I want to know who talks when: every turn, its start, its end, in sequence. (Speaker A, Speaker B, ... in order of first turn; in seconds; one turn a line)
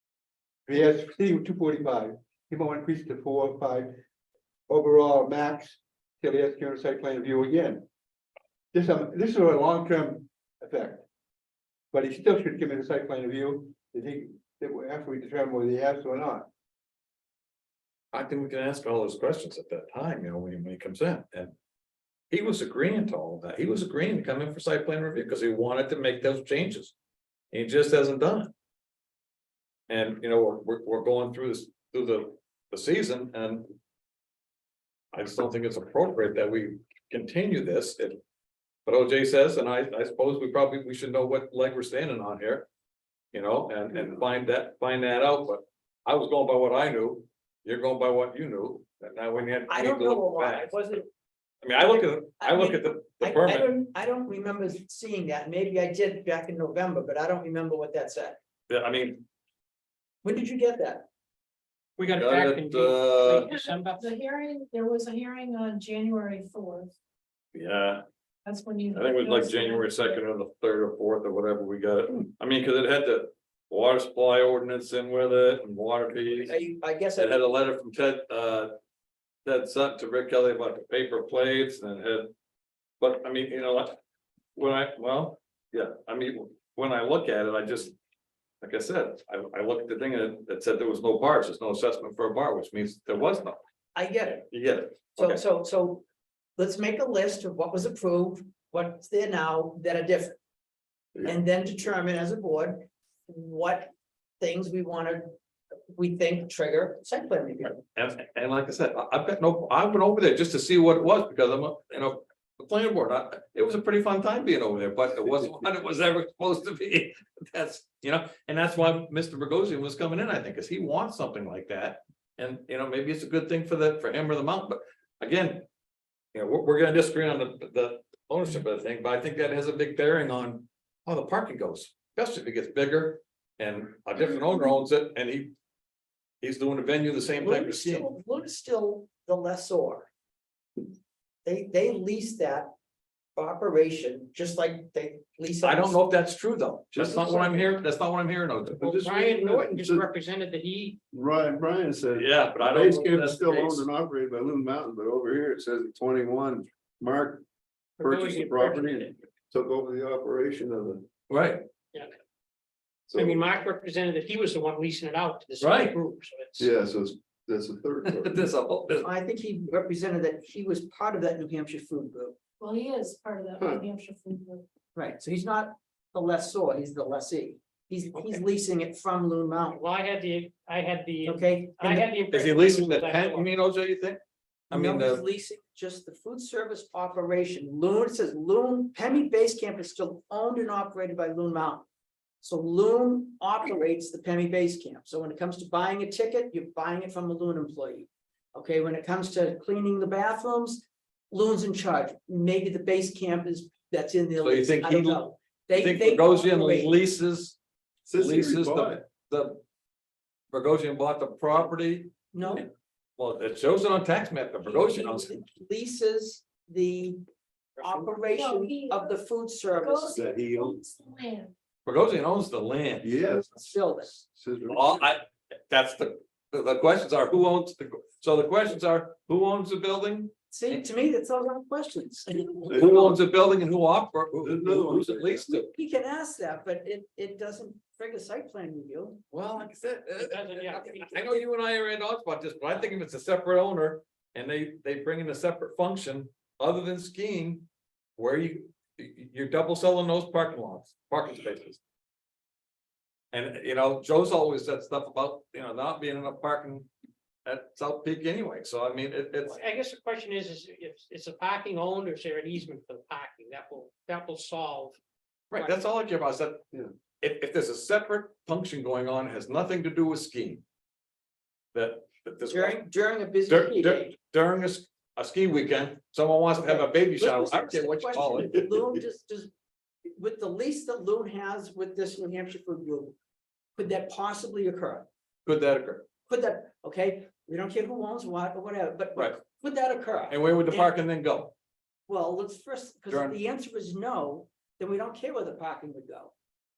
Speaker A: 0.7-4.0
Speaker A: 4.7-7.8
Speaker A: 8.7-11.1
Speaker A: 11.9-16.5
Speaker B: 18.1-21.5
Speaker B: 22.3-26.9
Speaker B: 27.5-28.5
Speaker B: 29.9-33.7
Speaker B: 35.1-38.2
Speaker B: 38.9-42.7
Speaker B: 43.3-51.0
Speaker C: 49.7-51.0
Speaker B: 51.6-53.7
Speaker C: 52.4-58.4
Speaker B: 58.7-59.2
Speaker C: 60.2-61.1
Speaker D: 62.0-64.2
Speaker B: 62.1-63.5
Speaker E: 63.4-66.9
Speaker B: 67.5-68.0
Speaker E: 68.5-70.2
Speaker B: 68.9-76.6
Speaker C: 76.4-77.5
Speaker B: 77.2-78.7
Speaker B: 79.5-82.3
Speaker B: 83.0-84.0
Speaker B: 84.6-88.0
Speaker B: 88.6-93.6
Speaker C: 94.0-94.5
Speaker B: 94.5-95.4
Speaker C: 95.2-96.0
Speaker C: 96.6-100.4
Speaker C: 101.2-105.3
Speaker C: 105.9-107.8
Speaker B: 107.6-125.7
Speaker B: 126.3-135.5
Speaker B: 136.4-138.1
Speaker C: 137.4-140.1
Speaker C: 141.4-142.7
Speaker C: 143.4-146.0
Speaker B: 145.6-149.1
Speaker C: 147.0-147.5
Speaker F: 147.0-147.5
Speaker F: 148.8-150.1
Speaker D: 148.8-151.0
Speaker F: 151.1-157.5
Speaker B: 152.2-153.9
Speaker F: 158.0-161.1
Speaker D: 158.0-159.2
Speaker B: 161.3-161.7
Speaker F: 163.1-163.4
Speaker D: 163.2-166.7
Speaker B: 165.6-166.0
Speaker F: 166.6-168.5
Speaker B: 168.1-169.1
Speaker C: 169.0-172.4
Speaker E: 172.6-174.6
Speaker F: 173.6-173.8
Speaker C: 174.9-179.8
Speaker D: 179.7-183.5
Speaker C: 181.2-182.1
Speaker B: 182.3-185.2
Speaker C: 184.7-191.8
Speaker C: 192.4-206.9
Speaker B: 204.4-205.2
Speaker B: 205.7-207.6
Speaker F: 208.1-209.0
Speaker B: 208.1-209.6
Speaker B: 210.5-215.3
Speaker C: 212.3-212.7
Speaker C: 214.6-217.2
Speaker C: 217.8-220.2
Speaker E: 218.2-219.2
Speaker E: 219.7-221.5
Speaker F: 220.1-220.8
Speaker B: 221.9-223.2
Speaker F: 223.0-223.8
Speaker C: 223.5-224.2
Speaker F: 224.3-225.1
Speaker B: 224.7-230.8
Speaker C: 230.5-232.8
Speaker B: 232.7-235.7
Speaker F: 232.7-233.2
Speaker F: 234.4-235.4
Speaker C: 235.5-239.2
Speaker B: 239.3-251.8
Speaker D: 240.2-241.4
Speaker B: 253.3-256.9
Speaker B: 257.4-259.6
Speaker D: 259.4-265.0
Speaker B: 265.5-266.6
Speaker B: 267.2-270.6
Speaker B: 271.7-272.8
Speaker C: 272.5-274.1
Speaker B: 273.5-278.7
Speaker C: 276.6-279.5
Speaker C: 280.2-283.1
Speaker C: 283.8-285.1
Speaker B: 285.5-286.1
Speaker C: 286.3-290.9
Speaker B: 289.2-289.4
Speaker B: 290.3-291.5
Speaker C: 292.1-296.3
Speaker B: 293.1-293.4